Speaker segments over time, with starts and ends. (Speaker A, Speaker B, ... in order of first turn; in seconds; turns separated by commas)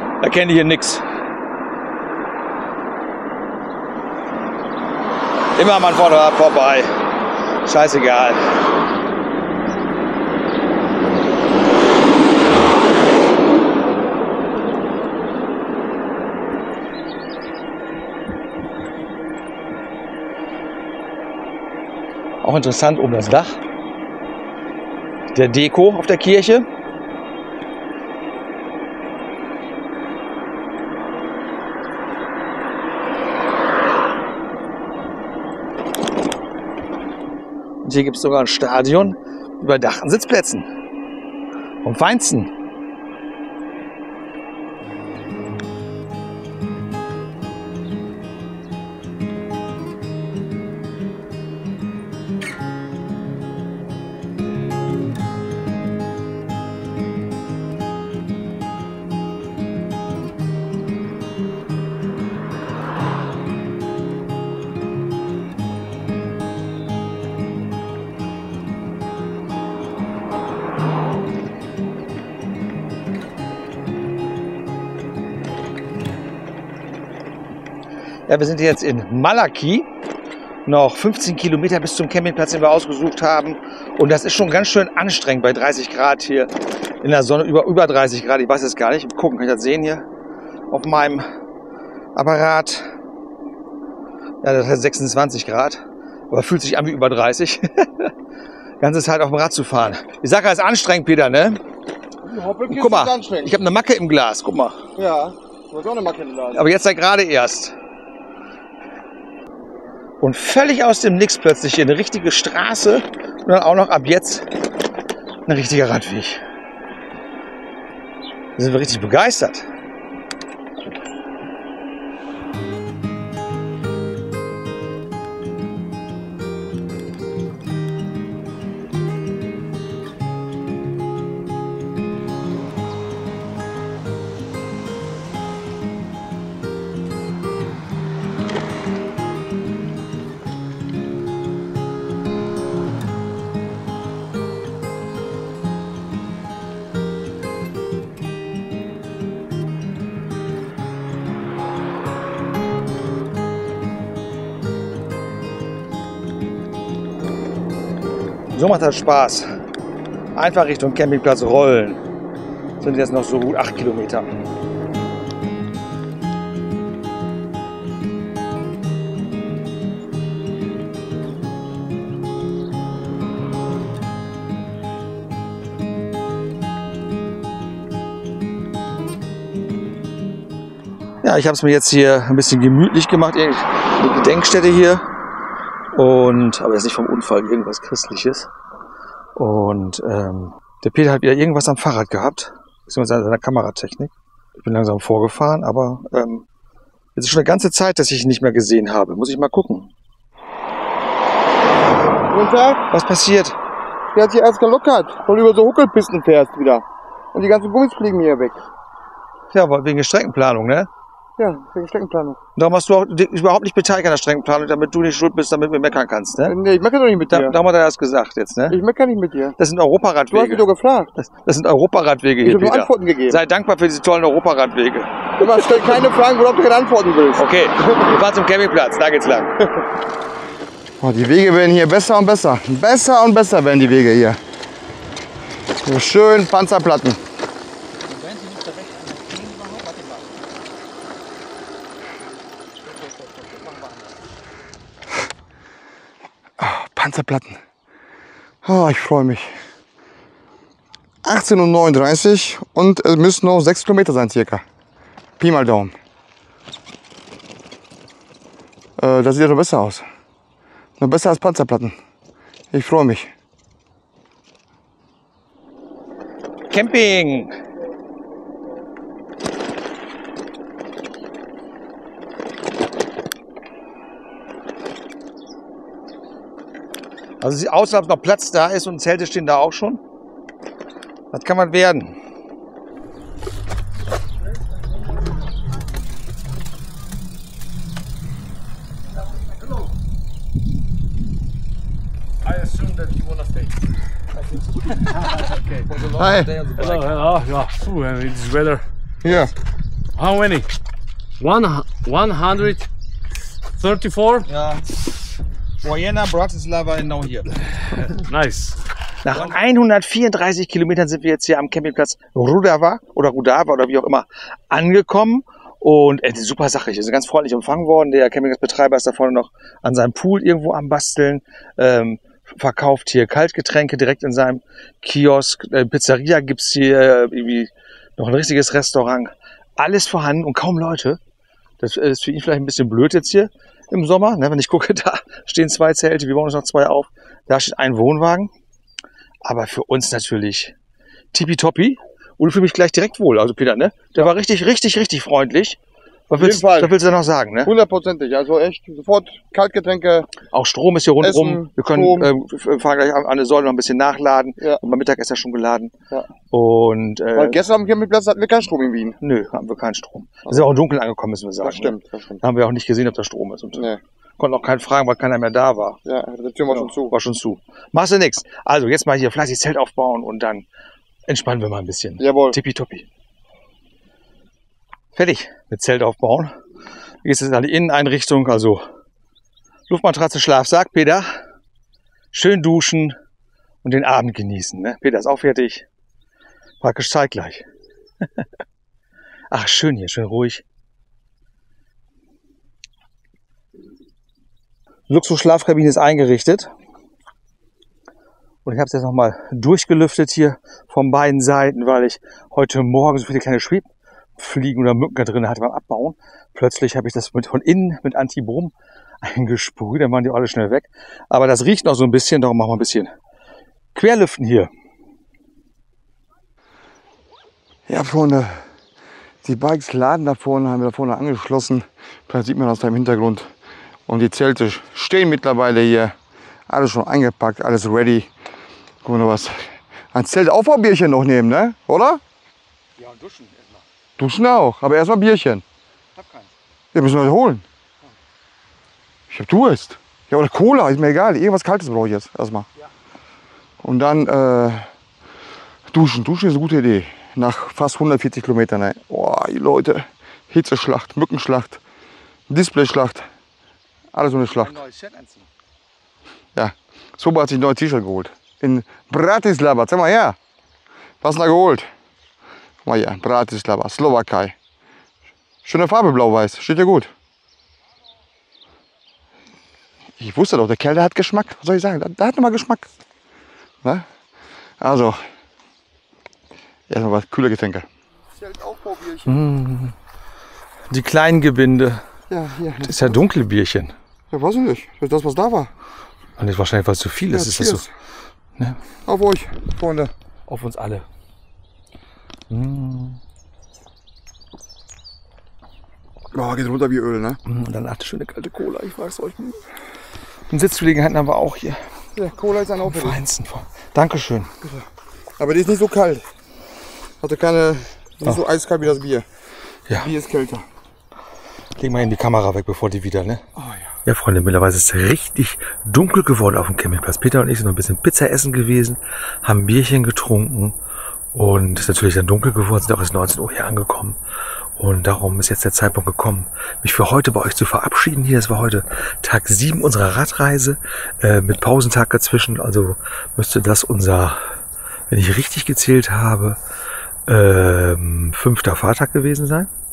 Speaker A: 0.2-1.0, Speaker A: 5.5-6.9, Speaker A: 7.6-8.5, Speaker A: 22.4-23.6, Speaker A: 25.3-26.6, Speaker A: 37.8-40.7, Speaker A: 41.8-42.5, Speaker A: 78.3-79.9, Speaker A: 80.7-90.0, Speaker A: 90.7-91.3, Speaker A: 92.1-92.9, Speaker A: 94.4-98.1, Speaker A: 98.8-101.6, Speaker B: 102.2-103.6, Speaker A: 102.7-104.8, Speaker B: 105.0-106.7, Speaker A: 106.5-107.7, Speaker A: 110.2-114.7, Speaker A: 115.5-116.4, Speaker A: 118.6-119.7, Speaker A: 158.5-159.5, Speaker A: 160.3-162.0, Speaker A: 162.8-164.3, Speaker A: 181.2-185.0, Speaker A: 185.9-188.5, Speaker A: 189.3-196.4, Speaker A: 197.1-199.9, Speaker B: 202.3-202.9, Speaker A: 202.9-203.6, Speaker B: 204.1-208.6, Speaker A: 209.5-210.9, Speaker B: 211.4-212.4, Speaker A: 212.6-216.5, Speaker B: 216.4-217.6, Speaker A: 217.3-218.8, Speaker B: 218.7-219.6, Speaker A: 219.6-225.1, Speaker B: 220.3-221.1, Speaker B: 222.4-223.4, Speaker B: 225.4-228.0, Speaker A: 227.4-229.6, Speaker B: 231.0-234.4, Speaker B: 235.8-237.2, Speaker A: 238.0-240.3, Speaker A: 242.8-244.1, Speaker B: 246.6-247.6, Speaker B: 248.6-249.5, Speaker B: 251.2-254.6, Speaker B: 255.4-255.9, Speaker B: 259.0-260.0, Speaker B: 261.0-261.9, Speaker B: 262.7-263.3, Speaker A: 266.7-267.6, Speaker A: 277.4-280.0, Speaker A: 281.3-282.2, Speaker C: 292.4-293.8, Speaker A: 294.9-297.2, Speaker C: 294.9-295.6, Speaker B: 296.1-296.5, Speaker C: 296.8-298.8, Speaker B: 299.2-299.5, Speaker C: 300.1-300.7, Speaker C: 301.4-302.9, Speaker C: 303.8-304.5, Speaker A: 304.5-304.8, Speaker A: 305.8-307.6, Speaker C: 308.0-308.8, Speaker A: 309.2-331.2, Speaker A: 331.8-338.5, Speaker A: 339.4-340.7, Speaker A: 341.3-345.8, Speaker A: 346.3-347.7, Speaker B: 346.3-346.9, Speaker B: 347.6-350.3, Speaker A: 350.5-355.9, Speaker B: 351.2-352.3, Speaker A: 356.5-357.6, Speaker B: 357.3-359.2, Speaker A: 359.2-366.0, Speaker B: 361.6-362.4, Speaker B: 366.0-367.1, Speaker A: 366.7-370.6, Speaker A: 371.3-373.1, Speaker B: 372.2-372.6, Speaker A: 375.1-376.5, Speaker A: 377.2-378.9, Speaker A: 379.9-381.3, Speaker A: 382.3-383.2, Speaker A: 383.8-385.9, Speaker A: 386.8-387.6, Speaker A: 389.5-390.6, Speaker A: 395.1-396.7, Speaker A: 398.6-413.1, Speaker A: 413.9-414.7, Speaker B: 417.9-418.6, Speaker B: 419.4-423.5, Speaker B: 424.1-426.1, Speaker B: 426.7-428.3, Speaker B: 429.0-432.2, Speaker A: 433.0-433.8, Speaker B: 434.2-435.6, Speaker A: 436.1-436.5, Speaker B: 436.9-437.6, Speaker B: 439.3-442.7, Speaker B: 443.8-444.9, Speaker B: 445.9-451.8, Speaker B: 452.5-453.3, Speaker B: 454.1-454.8, Speaker A: 454.5-455.5, Speaker B: 456.5-460.4, Speaker B: 461.2-461.9, Speaker B: 462.8-464.5, Speaker B: 465.6-467.1, Speaker B: 470.2-472.9, Speaker B: 474.8-475.2, Speaker B: 476.9-479.5, Speaker A: 479.2-479.9, Speaker A: 480.9-482.0, Speaker B: 482.3-483.2, Speaker A: 482.8-483.9, Speaker B: 484.3-485.7, Speaker A: 486.4-487.9, Speaker B: 487.3-487.9, Speaker B: 489.1-490.1, Speaker A: 490.5-491.1, Speaker A: 492.5-493.2, Speaker B: 496.3-497.4, Speaker A: 497.4-499.6, Speaker A: 500.5-501.8, Speaker B: 502.1-503.2, Speaker A: 502.8-504.5, Speaker B: 504.6-504.9, Speaker B: 505.4-506.3, Speaker B: 507.2-509.2, Speaker B: 509.9-510.6, Speaker A: 511.8-513.4, Speaker B: 513.6-513.9, Speaker A: 514.0-520.8, Speaker A: 521.3-524.2, Speaker A: 524.8-534.5, Speaker A: 535.1-536.6, Speaker A: 537.3-539.7